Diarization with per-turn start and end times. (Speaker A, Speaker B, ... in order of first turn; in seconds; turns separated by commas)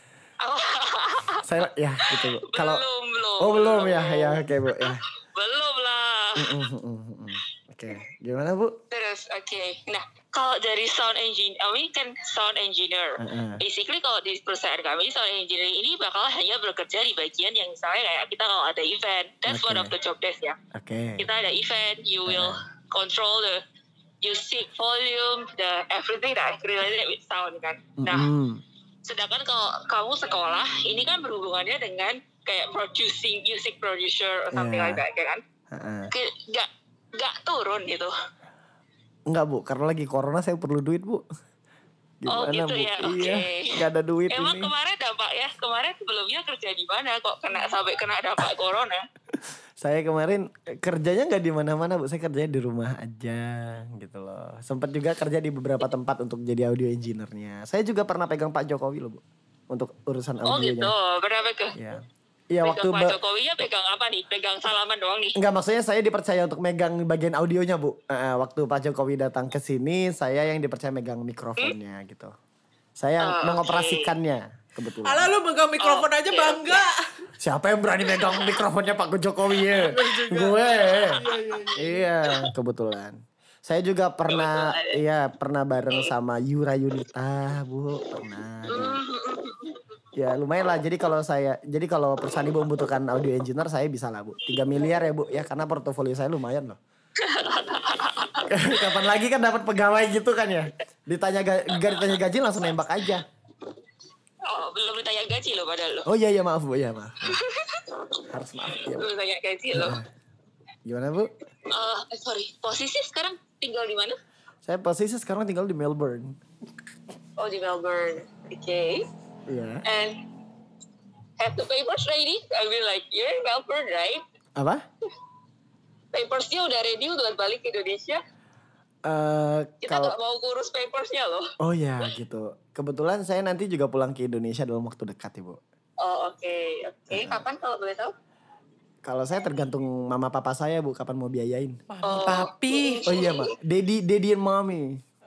Speaker A: 0.4-1.5, Speaker B: 1.4-2.8, Speaker A: 2.0-6.6, Speaker B: 3.4-5.0, Speaker B: 6.4-8.8, Speaker A: 8.9-20.6, Speaker B: 13.2-13.6, Speaker B: 19.5-19.9, Speaker B: 20.7-21.3, Speaker A: 21.2-23.6, Speaker B: 22.3-22.6, Speaker A: 24.2-28.3, Speaker B: 28.0-28.6, Speaker A: 29.1-35.4, Speaker B: 34.5-35.0, Speaker B: 35.7-36.1, Speaker A: 36.1-38.1, Speaker B: 39.3-41.2, Speaker B: 42.2-44.7, Speaker A: 42.3-49.0, Speaker B: 49.3-60.9, Speaker A: 60.4-61.8, Speaker B: 61.7-63.2, Speaker A: 62.6-65.4, Speaker B: 65.3-72.3, Speaker B: 73.0-75.3, Speaker A: 73.2-74.1, Speaker C: 75.0-77.0, Speaker A: 75.8-76.8, Speaker B: 77.4-81.2, Speaker A: 78.1-78.6, Speaker C: 79.8-82.1, Speaker B: 81.8-89.0, Speaker A: 84.3-85.0, Speaker A: 88.7-89.8, Speaker B: 90.1-96.8, Speaker A: 94.5-95.0, Speaker A: 97.2-99.1, Speaker B: 98.5-103.3, Speaker A: 101.7-102.2, Speaker A: 104.4-106.1, Speaker B: 106.0-107.4, Speaker A: 107.3-108.2, Speaker B: 108.3-109.1, Speaker A: 108.8-110.0, Speaker B: 109.7-110.1, Speaker B: 110.8-111.3, Speaker A: 111.7-114.2, Speaker B: 114.7-116.4, Speaker A: 117.4-119.1, Speaker B: 119.5-119.8, Speaker A: 119.9-120.2, Speaker A: 121.4-124.2, Speaker B: 124.6-124.8, Speaker A: 126.1-128.2, Speaker B: 129.1-130.2, Speaker A: 129.8-131.5, Speaker B: 131.6-135.6, Speaker A: 136.0-138.1, Speaker B: 137.1-137.5, Speaker B: 139.0-141.8, Speaker C: 141.9-143.2, Speaker A: 142.0-143.5, Speaker B: 143.1-145.0